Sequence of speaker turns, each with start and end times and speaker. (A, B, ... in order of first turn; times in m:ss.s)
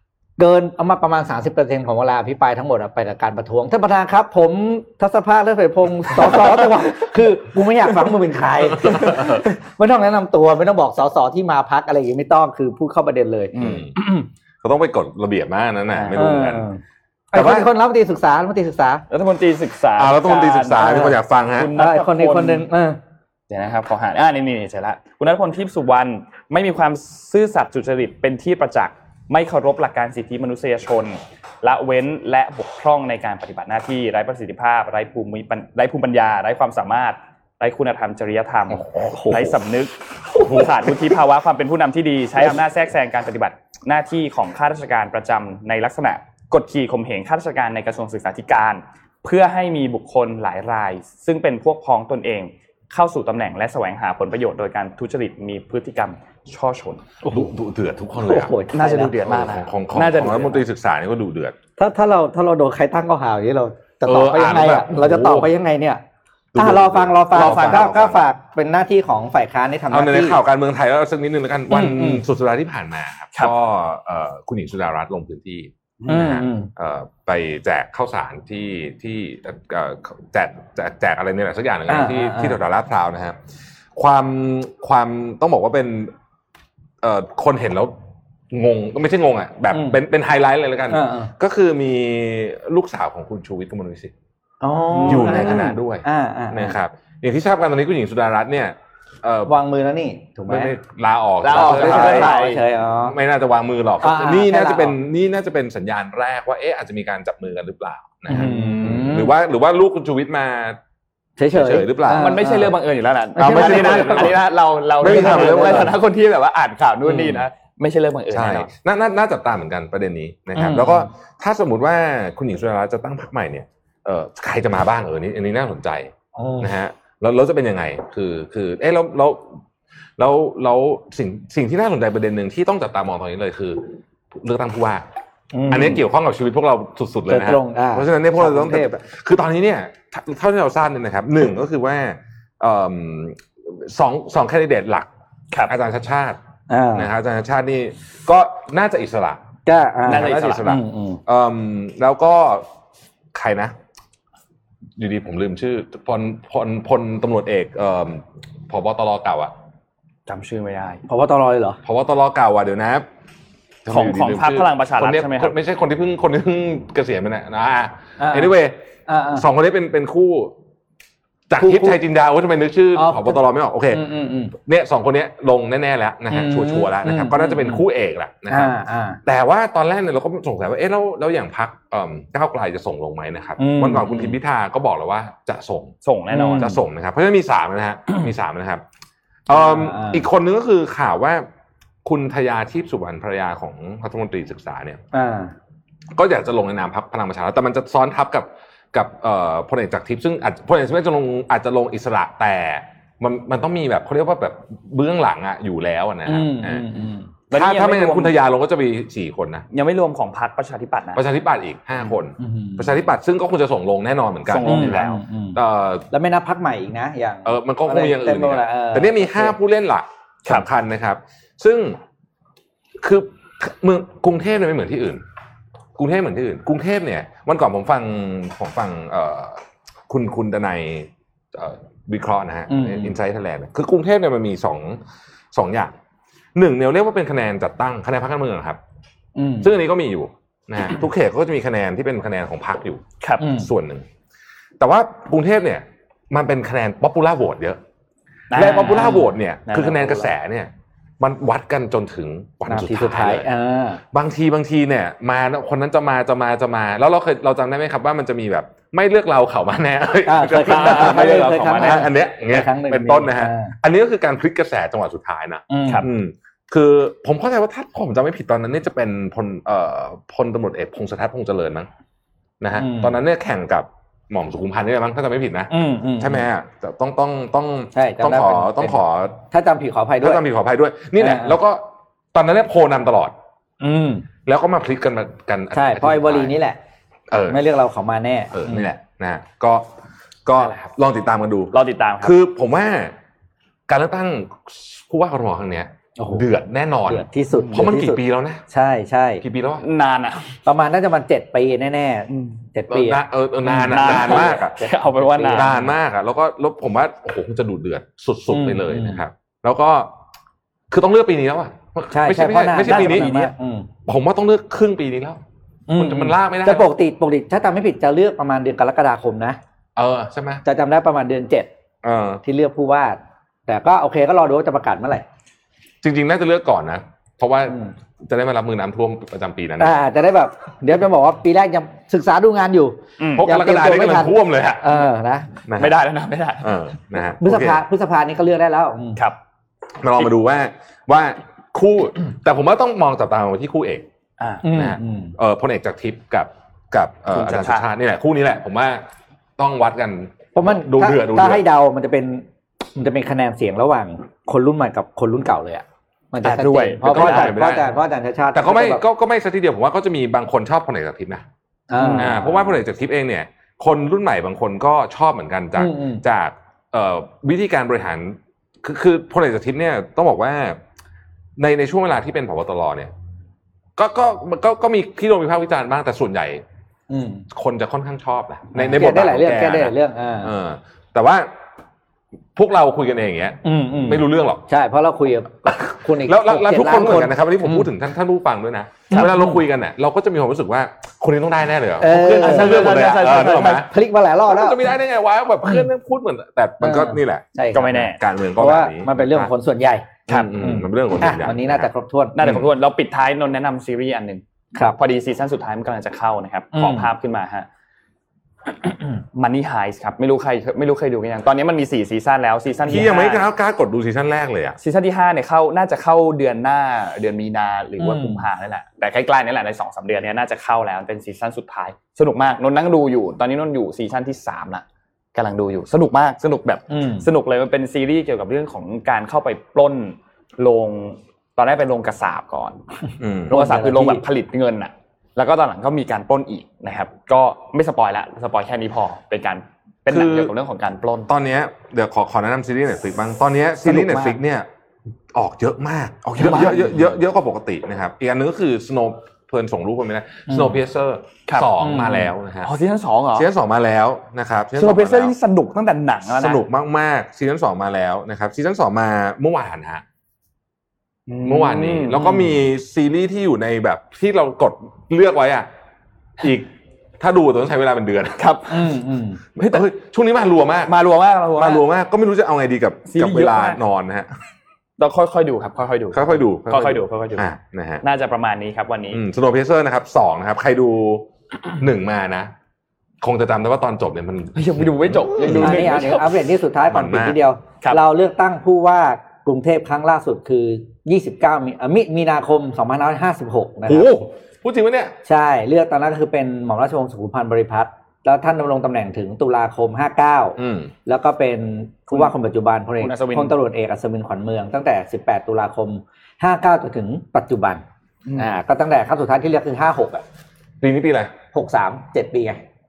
0:00.4-0:13.5 A
0:08.6-0:09.4 B
0:13.5-0:13.9 C
0:13.6-0:16.6 B
0:15.9-0:16.5 C
0:16.1-0:16.8 A
0:17.3-0:19.0 A
0:17.3-0:17.7 B
0:19.1-0:22.6 C
0:20.0-0:21.7 B
0:21.7-0:23.0 A
0:23.5-0:57.0 C
0:38.7-0:39.6 A
0:40.3-0:40.8 B
0:57.2-0:57.5 A
0:57.3-0:58.5 B
0:58.2-0:59.1 A
0:58.7-1:00.6 C
0:59.2-1:01.6 B
1:01.8-1:06.0 A
1:04.0-1:05.5 B
1:06.5-1:08.2 B
1:06.6-1:10.4 A
1:07.3-1:07.9 C
1:09.9-1:23.4 B
1:11.7-1:12.2 A
1:16.0-1:16.4 C
1:16.1-1:16.7 A
1:21.9-1:22.6 A
1:23.9-1:26.1 B
1:27.0-1:27.9 B
1:28.5-1:34.1 B
1:29.7-1:30.0 A
1:30.9-1:31.3 A
1:34.6-1:36.8 A
1:34.9-1:35.6 C
1:35.1-1:39.5 B
1:39.5-1:40.7 A
1:40.5-1:42.5 B
1:41.4-1:42.6 C
1:41.5-1:43.2 A
1:43.0-1:50.8 B
1:44.0-1:45.0 A
1:48.3-1:49.3 A
1:51.4-1:52.8 A
1:51.5-1:52.4 B
1:52.1-1:58.7 C
1:53.4-1:54.4 B
1:53.4-1:54.4 A
1:55.0-1:56.0 B
1:55.0-1:55.9 A
1:57.0-1:57.4 B
1:58.3-2:09.6 B
2:00.5-2:01.1 A
2:06.3-2:06.7 A
2:10.2-2:15.0 B
2:15.5-2:16.0 A
2:15.7-2:25.1 B
2:17.3-2:19.0 A
2:25.6-2:26.4 B
2:26.7-2:27.1 A
2:26.9-2:29.4 B
2:29.6-2:31.2 A
2:30.0-2:30.7 C
2:30.0-2:32.6 B
2:33.3-2:33.7 B
2:35.0-2:39.5 B
2:40.3-2:41.0 C
2:41.1-2:41.8 A
2:41.8-2:43.1 B
2:43.8-2:50.6 B
2:43.9-2:45.6 C
2:48.2-2:48.5 A
2:49.1-2:49.4 A
2:51.5-3:05.9 B
2:51.6-2:52.0 A
2:52.9-2:54.5 A
2:56.3-2:57.8 A
2:58.5-2:59.2 A
3:03.6-3:04.3 A
3:06.0-3:06.8 C
3:06.3-3:06.8 A
3:06.5-3:08.8 B
3:09.5-3:11.4 B
3:09.5-3:10.2 A
3:12.0-3:15.0 B
3:15.1-3:15.5 A
3:16.1-3:26.8 B
3:26.2-3:27.3 A
3:27.5-3:28.3 C
3:27.5-3:29.7 B
3:29.7-3:31.2 C
3:31.1-3:36.1 B
3:32.4-3:32.9 A
3:34.5-3:35.2 C
3:34.6-3:39.6 A
3:37.4-3:42.0 B
3:43.0-3:45.2 B
3:46.0-3:55.0 B
3:52.7-3:53.1 A
3:55.5-3:55.9 B
3:56.5-3:58.8 B
3:59.4-3:59.7 A
3:59.6-4:04.0 B
4:03.2-4:03.4 C
4:03.4-4:03.7 A
4:04.8-4:07.8 B
4:08.5-4:10.2 C
4:08.5-4:13.5 B
4:08.5-4:09.3 A
4:12.6-4:14.0 A
4:14.1-4:31.9 B
4:20.2-4:23.8 A
4:20.6-4:22.1 C
4:25.7-4:26.1 A
4:32.6-4:39.4 B
4:32.7-4:33.2 A
4:35.7-4:36.4 A
4:37.9-4:40.4 A
4:40.2-4:43.3 B
4:41.2-4:41.6 A
4:43.8-4:44.2 A
4:44.4-4:46.5 B
4:45.7-4:46.8 A
4:47.3-4:47.6 B
4:47.5-4:48.9 A
4:48.5-4:49.9 B
4:50.4-4:53.1 B
4:50.6-4:50.8 C
4:51.7-4:52.4 C
4:53.9-4:58.6 B
4:56.2-4:56.5 A
4:57.1-4:59.4 A
4:57.5-4:57.8 C
4:59.4-4:59.8 B
4:59.8-5:00.5 C
5:00.6-5:04.5 A
5:02.3-5:02.6 C
5:02.9-5:04.8 B
5:03.8-5:05.7 C
5:05.2-5:05.9 A
5:05.5-5:10.1 B
5:08.5-5:09.2 A
5:10.9-5:13.3 B
5:12.1-5:13.9 A
5:12.8-5:13.5 C
5:14.0-5:15.4 B
5:15.9-5:19.6 A
5:16.0-5:16.9 B
5:20.0-5:20.6 B
5:20.6-5:21.7 A
5:22.0-5:22.4 B
5:22.4-5:25.2 A
5:26.0-5:29.9 B
5:29.8-5:35.5 A
5:33.2-5:33.5 C
5:33.4-5:35.0 B
5:35.7-5:36.0 B
5:35.7-5:36.7 C
5:36.6-5:37.8 B
5:37.4-5:39.2 A
5:40.0-5:44.1 B
5:44.4-5:44.6 C
5:44.6-5:45.3 A
5:44.6-5:49.0 B
5:47.3-5:47.9 C
5:49.6-5:51.6 B
5:50.5-5:59.0 A
5:56.4-5:57.6 C
5:57.0-5:58.0 B
5:58.5-6:01.4 B
6:01.9-6:02.7 A
6:02.0-6:02.3 C
6:02.2-6:10.8 B
6:05.8-6:06.2 A
6:11.6-6:13.1 B
6:14.0-6:16.6 B
6:17.1-6:17.4 A
6:17.5-6:21.5 B
6:18.7-6:20.5 A
6:22.6-6:24.6 B
6:23.6-6:27.9 A
6:25.7-6:33.9 B
6:29.1-6:29.6 A
6:32.0-6:34.8 A
6:32.1-6:33.8 C
6:34.4-6:39.5 B
6:36.8-6:38.0 A
6:37.7-6:38.2 C
6:38.6-6:42.4 A
6:40.3-6:42.6 B
6:40.3-6:40.6 C
6:42.3-6:47.7 C
6:46.7-6:47.1 A
6:49.3-6:53.4 C
6:52.8-6:54.8 B
6:54.8-7:12.8 C
6:58.0-6:58.4 A
7:06.9-7:07.3 A
7:13.2-7:13.5 B
7:13.5-7:21.3 C
7:13.5-7:14.2 A
7:20.1-7:20.5 B
7:21.3-7:24.7 B
7:23.8-7:24.4 C
7:25.3-7:32.7 B
7:26.3-7:27.0 C
7:30.5-7:30.8 A
7:31.5-7:31.7 C
7:31.8-7:32.3 A
7:32.6-7:33.5 C
7:33.3-7:35.3 B
7:34.8-7:36.6 C
7:36.3-7:40.0 B
7:41.3-7:42.4 C
7:41.4-7:45.7 B
7:46.4-7:48.6 B
7:48.4-7:48.9 C
7:48.7-7:49.4 A
7:49.6-7:50.9 B
7:49.6-7:49.8 C
7:50.8-7:51.8 C
7:51.6-7:54.3 B
7:53.0-7:53.8 C
7:55.0-7:57.4 C
7:56.1-7:58.0 B
7:58.0-7:59.2 C
7:59.1-8:02.5 B
8:03.2-8:06.3 B
8:04.5-8:06.3 C
8:05.4-8:14.1 A
8:06.8-8:07.4 B
8:13.8-8:15.1 B
8:15.2-8:27.8 A
8:20.6-8:20.9 B
8:23.0-8:23.6 C
8:28.4-8:30.2 A
8:30.8-8:31.3 B
8:31.5-8:32.6 A